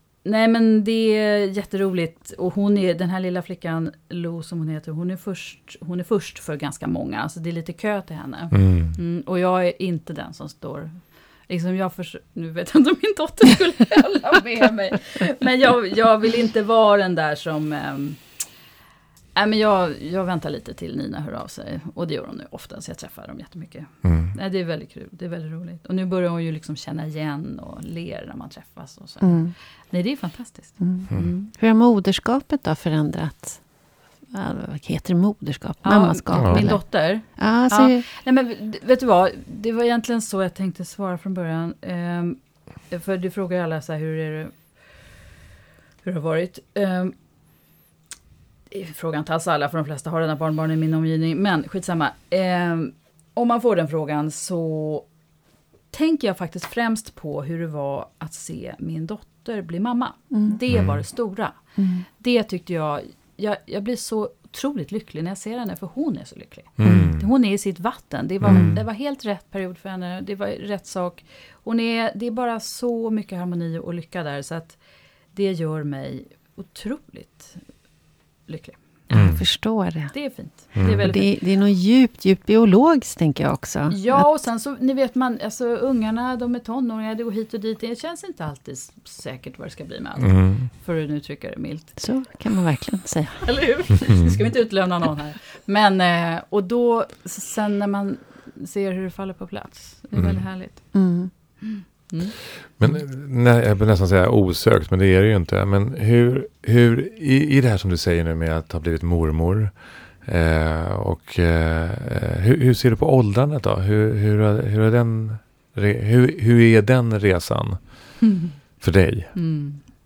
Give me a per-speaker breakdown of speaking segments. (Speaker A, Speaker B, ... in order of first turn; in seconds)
Speaker A: 0.2-18.2, 19.4-31.5, 35.8-44.6, 46.0-47.1, 48.7-55.1, 55.9-61.6, 62.2-74.8, 75.3-77.6, 78.5-79.0, 80.1-81.3, 83.9-92.0, 93.4-101.0, 101.6-102.4, 119.3-119.8
Speaker B: 8.5-9.0, 24.0-24.4, 36.4-36.7, 60.7-61.0, 66.8-67.3, 68.4-68.8, 79.1-79.4, 80.8-81.0, 90.2-90.7, 100.1-100.4, 102.8-118.2, 118.8-119.3
Speaker C: 29.2-29.5, 30.8-33.6, 34.3-38.1, 60.3-60.6, 61.8-62.1, 66.8-67.1, 68.5-68.8, 79.1-80.1, 80.8-84.3, 92.0-93.9, 100.9-101.3